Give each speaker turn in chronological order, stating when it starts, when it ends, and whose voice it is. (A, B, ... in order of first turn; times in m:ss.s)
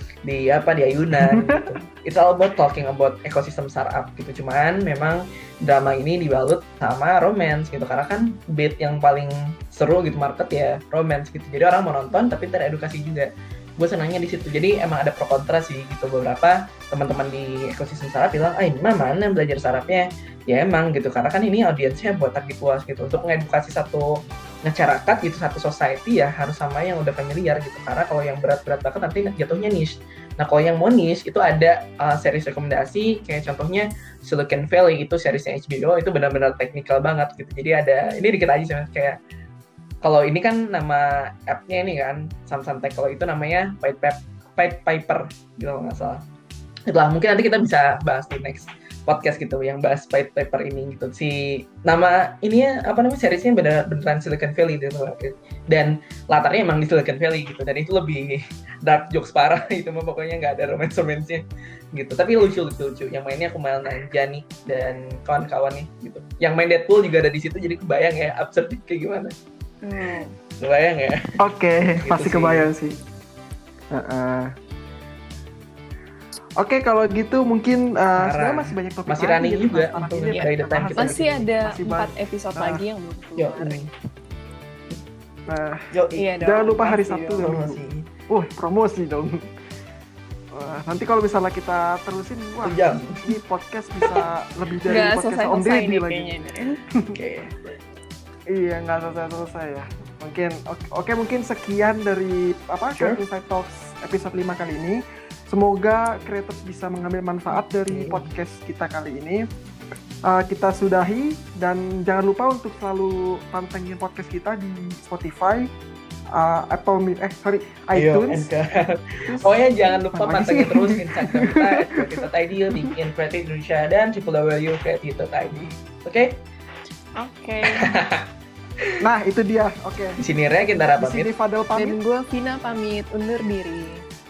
0:00.2-0:39.2 A
0:01.2-0:01.8 B
0:40.0-0:46.2 A
0:46.9-1:09.3 A
1:09.8-1:10.4 C
1:10.6-1:11.4 A
1:11.4-1:13.0 B
1:12.0-1:12.7 A
1:13.9-1:14.5 B
1:16.6-1:22.8 B
1:18.2-1:21.2 A
1:20.3-1:23.8 C
1:23.4-1:23.9 A
1:25.5-1:25.8 B
1:25.9-1:26.3 A
1:26.2-1:27.4 C
1:26.4-1:29.5 B
1:27.4-1:28.1 A
1:30.5-1:36.3 B
1:32.6-1:33.3 A
1:34.9-1:36.8 C
1:37.1-1:37.7 A
1:38.5-1:49.4 B
1:47.5-1:48.3 A
1:50.3-1:55.7 B
1:56.3-1:58.5 B
1:57.9-2:06.4 A
1:59.2-1:59.6 B
2:00.1-2:02.9 B
2:07.2-2:07.9 C
2:07.6-2:08.2 A
2:09.0-2:10.2 B
2:10.2-2:11.3 A
2:11.0-2:12.0 B
2:11.8-2:14.0 C